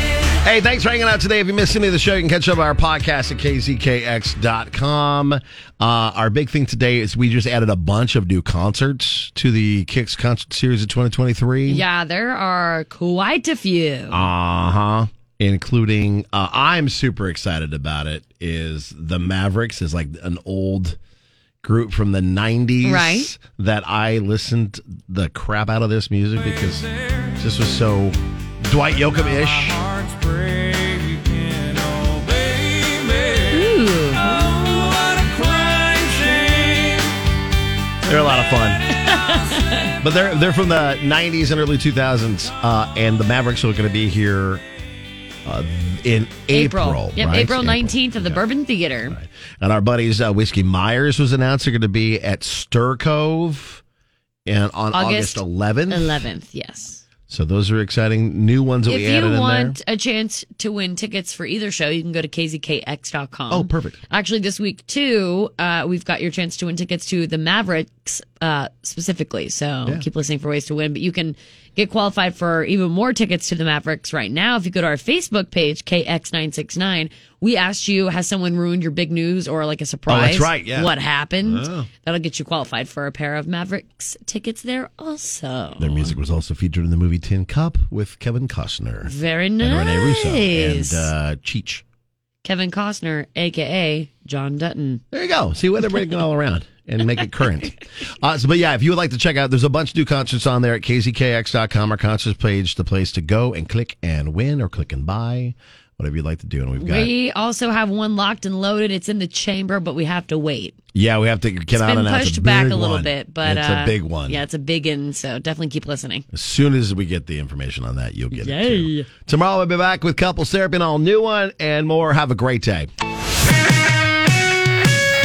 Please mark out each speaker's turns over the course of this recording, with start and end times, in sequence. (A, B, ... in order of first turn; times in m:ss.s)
0:00.4-0:11.8 A
0:11.7-0:14.2 B
0:14.1-0:21.0 A
0:21.6-0:29.8 A
0:22.8-0:23.3 B
0:33.5-0:34.3 B
0:38.0-0:38.8 A
0:39.0-0:39.9 B
0:40.0-0:44.6 A
0:45.4-0:48.4 A
0:46.5-0:49.2 B
0:49.1-0:53.8 A
0:54.5-0:56.2 A
0:54.9-0:57.0 B
0:57.3-0:59.8 A
0:58.9-1:26.2 B
1:03.5-1:04.0 A
1:20.1-1:20.9 A
1:21.4-1:21.9 A
1:25.8-1:31.8 A
1:29.1-1:31.1 B
1:32.4-1:35.0 B
1:35.1-1:47.1 A
1:46.8-1:50.8 B
1:50.9-1:54.4 A
1:51.7-1:56.3 B
1:56.3-2:02.9 A
1:58.3-1:59.1 B